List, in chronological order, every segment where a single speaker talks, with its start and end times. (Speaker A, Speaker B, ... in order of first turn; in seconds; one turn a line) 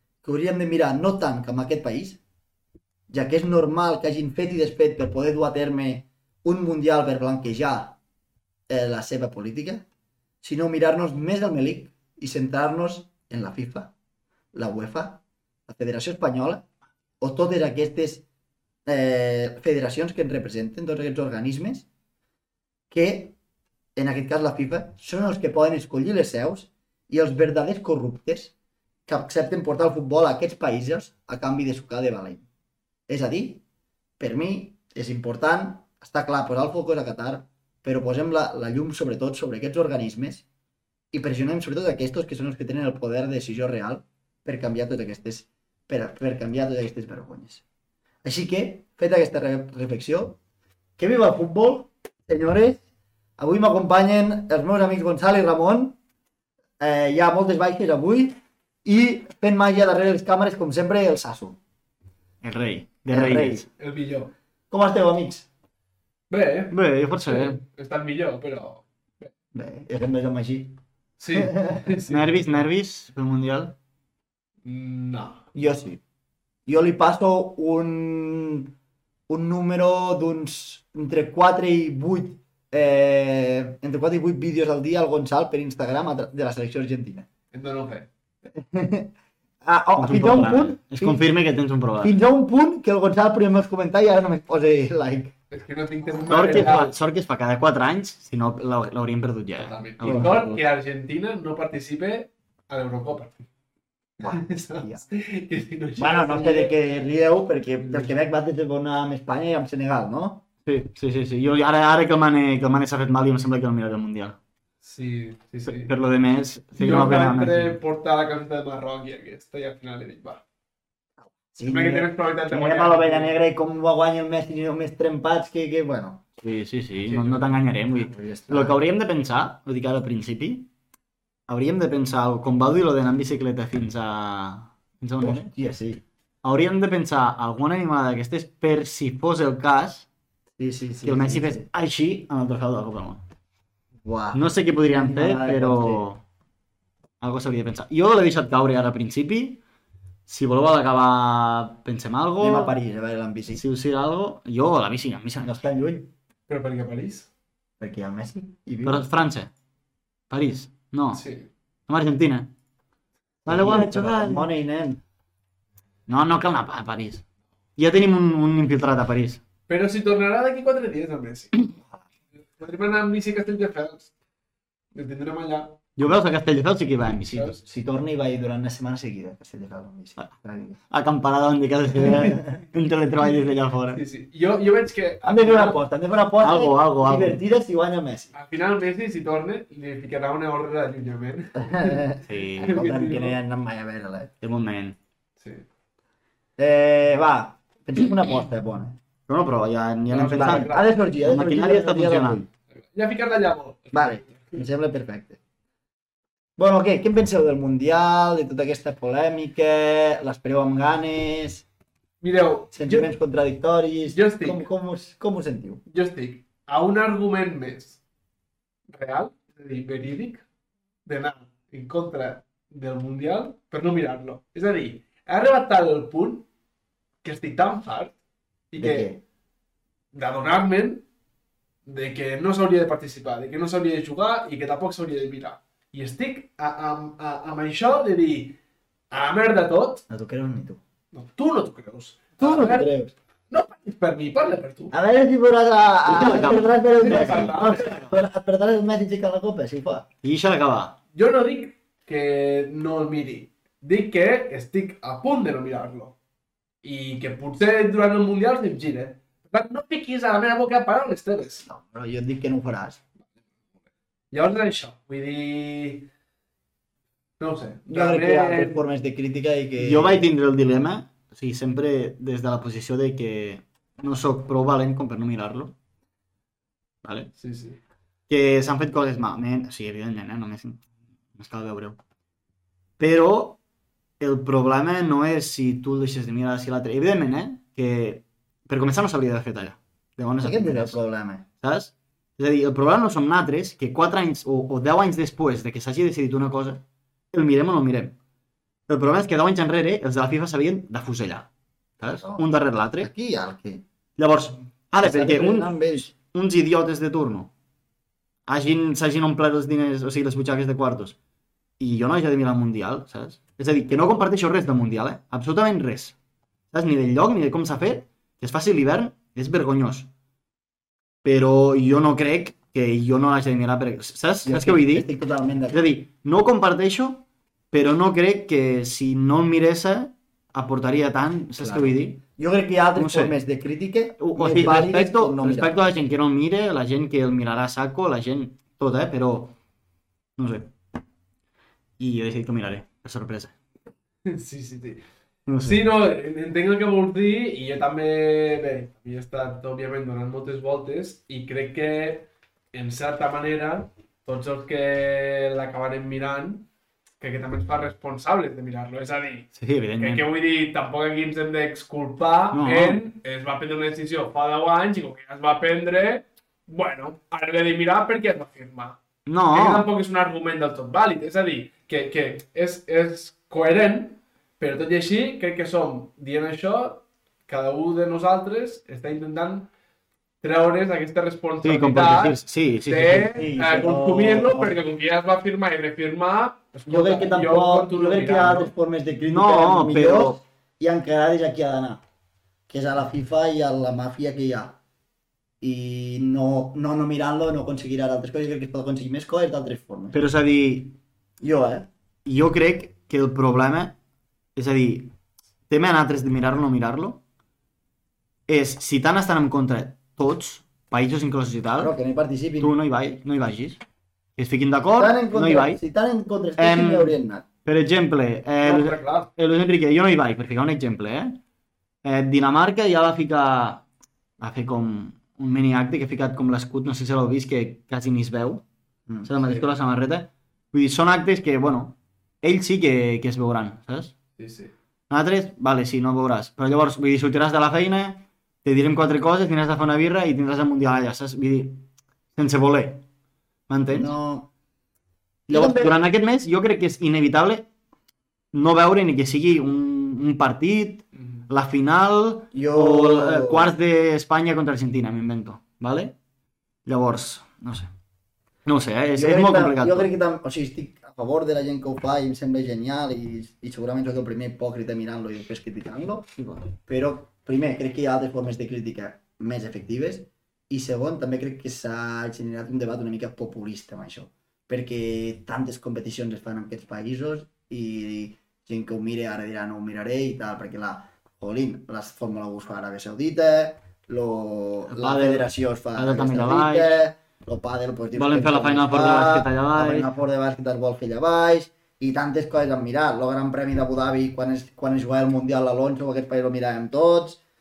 Speaker A: 0.2-2.2
Speaker A: 3.1-8.0
Speaker A: 8.7-9.8
Speaker A: 10.4-13.9
Speaker A: 14.5-16.6
Speaker A: 17.2-18.2
Speaker A: 18.9-21.9
Speaker A: 22.9-23.3
Speaker A: 23.9-28.5
Speaker A: 29.1-32.4
Speaker A: 33.1-33.6
Speaker A: 34.2-40.4
Speaker A: 41.1-47.6
Speaker A: 48.2-50.4
Speaker A: 51.0-52.8
Speaker A: 53.4-56.0
Speaker A: 56.8-61.6
Speaker B: 62.4-63.6
Speaker A: 63.1-63.6
Speaker C: 63.8-64.3
Speaker A: 64.7-65.5
Speaker C: 66.3-69.3
Speaker B: 66.7-67.6
Speaker A: 69.5-70.8
Speaker C: 71.2-72.5
Speaker A: 71.3-71.9
Speaker B: 72.1-73.7
Speaker C: 74.6-75.5
Speaker A: 75.5-76.0
Speaker A: 76.7-78.7
Speaker A: 79.3-87.2
Speaker C: 87.5-88.1
Speaker A: 88.5-91.2
Speaker B: 90.0-92.1
Speaker A: 92.0-95.3
Speaker C: 95.5-96.9
Speaker B: 96.3-100.6
Speaker C: 99.6-103.4
Speaker A: 100.0-100.3
Speaker A: 104.2-105.0
Speaker C: 104.2-106.7
Speaker A: 106.0-110.4
Speaker C: 107.8-108.1
Speaker B: 110.7-114.4
Speaker C: 114.8-115.9
Speaker B: 115.7-117.8
Speaker C: 116.8-120.4
Speaker A: 121.2-126.2
Speaker C: 121.6-123.3
Speaker B: 126.4-130.7
Speaker C: 127.1-127.6
Speaker A: 128.0-128.8
Speaker B: 131.5-135.5
Speaker A: 135.2-136.0
Speaker B: 136.4-140.1
Speaker A: 140.6-141.7
Speaker B: 141.0-143.2
Speaker A: 144.0-146.0
Speaker B: 144.3-146.2
Speaker B: 147.2-149.6
Speaker B: 150.3-152.7
Speaker A: 152.4-153.6
Speaker B: 153.5-155.6
Speaker A: 155.4-156.1
Speaker C: 156.5-157.3
Speaker A: 157.8-159.1
Speaker B: 158.8-159.5
Speaker B: 160.3-161.2
Speaker C: 161.1-161.5
Speaker B: 161.9-162.5
Speaker A: 163.4-165.0
Speaker B: 163.5-164.5
Speaker B: 166.1-167.2
Speaker B: 167.8-169.4
Speaker C: 169.7-171.7
Speaker C: 172.6-174.1
Speaker C: 174.9-175.8
Speaker B: 176.0-177.5
Speaker C: 177.3-177.6
Speaker A: 177.6-180.8
Speaker B: 180.9-184.0
Speaker A: 182.0-182.6
Speaker C: 183.9-185.8
Speaker A: 185.2-188.3
Speaker B: 186.4-187.4
Speaker C: 188.3-193.3
Speaker A: 191.6-194.3
Speaker B: 192.3-192.8
Speaker B: 194.4-195.0
Speaker A: 196.6-199.0
Speaker B: 199.3-202.5
Speaker C: 200.1-200.9
Speaker A: 200.1-202.4
Speaker C: 202.7-204.6
Speaker A: 203.9-205.4
Speaker A: 206.6-211.6
Speaker C: 212.2-213.1
Speaker A: 212.7-215.8
Speaker C: 214.1-214.7
Speaker C: 215.9-218.0
Speaker C: 218.9-220.4
Speaker C: 221.1-226.5
Speaker C: 227.2-228.1
Speaker C: 228.7-229.1
Speaker A: 228.8-229.2
Speaker C: 230.1-231.0
Speaker C: 231.8-238.6
Speaker C: 239.1-240.0
Speaker A: 240.1-240.8
Speaker C: 241.1-242.9
Speaker A: 242.4-243.1
Speaker C: 243.5-244.9
Speaker A: 244.9-250.0
Speaker B: 246.1-247.9
Speaker C: 246.3-248.1
Speaker B: 250.2-250.9
Speaker C: 251.1-256.1
Speaker C: 256.8-261.6
Speaker A: 261.6-263.0
Speaker C: 264.3-266.1
Speaker C: 267.4-268.8
Speaker A: 267.9-270.2
Speaker B: 269.8-275.7
Speaker B: 277.0-277.3
Speaker C: 277.4-277.8
Speaker B: 278.3-280.8
Speaker B: 281.3-282.0
Speaker B: 283.0-283.6
Speaker B: 284.2-291.0
Speaker A: 290.4-291.4
Speaker B: 291.6-298.1
Speaker B: 298.9-301.5
Speaker B: 302.0-303.1
Speaker A: 302.1-302.5
Speaker A: 303.0-303.8
Speaker B: 304.2-307.5
Speaker A: 305.0-306.1
Speaker B: 308.5-311.1
Speaker B: 311.8-316.1
Speaker B: 316.7-320.1
Speaker B: 321.2-325.1
Speaker A: 324.4-325.8
Speaker B: 325.7-332.2
Speaker A: 331.6-335.7
Speaker B: 332.9-333.4
Speaker B: 334.2-339.5
Speaker B: 340.4-340.7
Speaker B: 342.0-343.5
Speaker C: 344.2-345.0
Speaker B: 345.5-345.8
Speaker C: 345.6-356.7
Speaker C: 357.2-369.0
Speaker B: 359.6-360.3
Speaker B: 362.5-363.0
Speaker B: 369.2-369.9
Speaker C: 369.5-379.7
Speaker C: 380.4-388.7
Speaker B: 381.6-383.4
Speaker A: 383.3-384.8
Speaker A: 386.9-392.0
Speaker B: 389.3-390.4
Speaker A: 392.7-394.8
Speaker A: 395.6-400.2
Speaker B: 400.1-401.0
Speaker A: 401.4-401.9
Speaker B: 402.2-403.9
Speaker B: 404.6-405.1
Speaker B: 405.7-407.2
Speaker B: 408.5-411.9
Speaker A: 411.8-412.7
Speaker B: 412.6-413.8
Speaker B: 414.4-415.8
Speaker A: 415.0-417.4
Speaker B: 416.6-421.4
Speaker C: 418.6-419.3
Speaker B: 422.0-423.8
Speaker B: 424.4-428.6
Speaker A: 429.1-429.6
Speaker B: 429.2-434.1
Speaker C: 434.4-434.7
Speaker B: 435.1-443.0
Speaker B: 443.7-444.1
Speaker A: 443.9-444.5
Speaker A: 445.5-446.0
Speaker B: 445.5-447.7
Speaker B: 448.5-456.1
Speaker A: 452.5-453.7
Speaker B: 456.9-457.9
Speaker B: 458.6-460.1
Speaker A: 459.1-466.3
Speaker B: 466.4-466.7
Speaker A: 466.8-497.4
Speaker B: 484.9-486.9
Speaker B: 488.1-490.1